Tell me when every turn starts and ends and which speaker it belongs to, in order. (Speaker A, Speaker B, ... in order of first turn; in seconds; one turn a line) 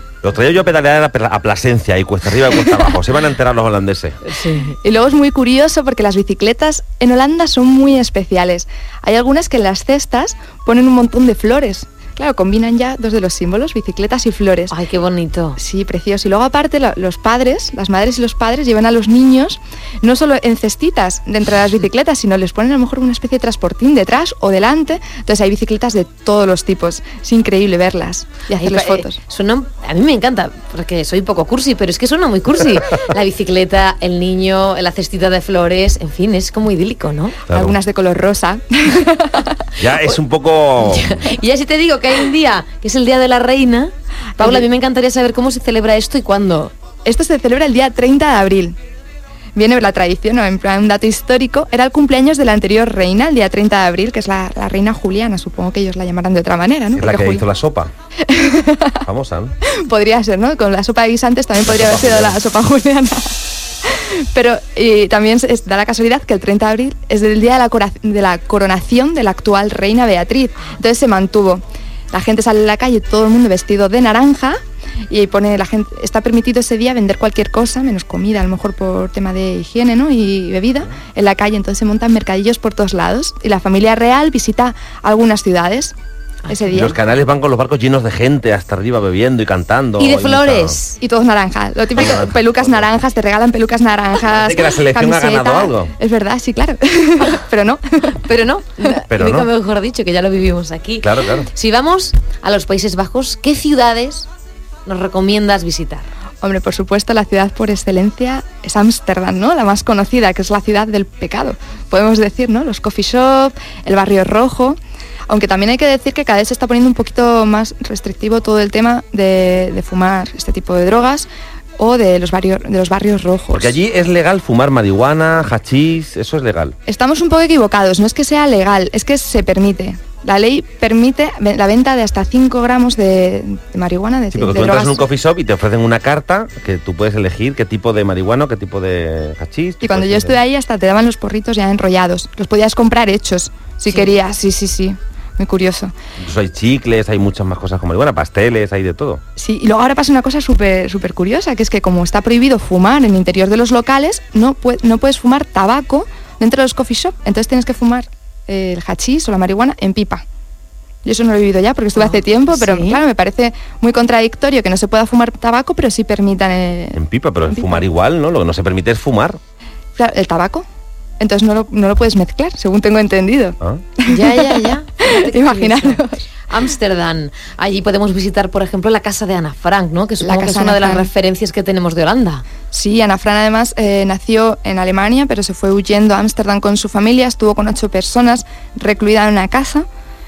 Speaker A: 0.2-4.2
Speaker B: 4.2-4.8
Speaker C: 4.8-14.7
Speaker B: 14.7-15.6
Speaker C: 15.6-29.2
Speaker B: 28.6-37.4
Speaker A: 37.5-37.8
Speaker C: 37.5-39.5
Speaker A: 39.8-41.2
Speaker B: 40.8-46.7
Speaker C: 44.4-44.7
Speaker C: 47.0-48.8
Speaker C: 49.5-57.5
Speaker A: 56.9-57.9
Speaker C: 58.3-59.0
Speaker A: 59.0-59.5
Speaker C: 59.8-63.3
Speaker A: 61.7-62.4
Speaker C: 63.9-85.9
Speaker B: 86.4-86.9
Speaker C: 86.5-87.0
Speaker A: 86.7-90.8
Speaker B: 90.0-90.9
Speaker C: 91.0-98.3
Speaker A: 91.9-92.6
Speaker A: 94.2-95.9
Speaker B: 98.2-104.3
Speaker A: 99.1-99.5
Speaker A: 101.0-101.5
Speaker B: 104.8-106.0
Speaker C: 106.4-114.8
Speaker C: 115.3-123.8
Speaker A: 123.5-126.8
Speaker C: 126.9-135.1
Speaker A: 134.3-140.4
Speaker C: 139.8-145.9
Speaker A: 146.2-149.2
Speaker C: 149.4-160.2
Speaker C: 161.0-167.8
Speaker B: 161.9-163.0
Speaker A: 166.9-169.4
Speaker C: 169.9-170.7
Speaker C: 171.2-176.2
Speaker B: 174.1-182.4
Speaker C: 180.2-181.1
Speaker C: 182.7-189.9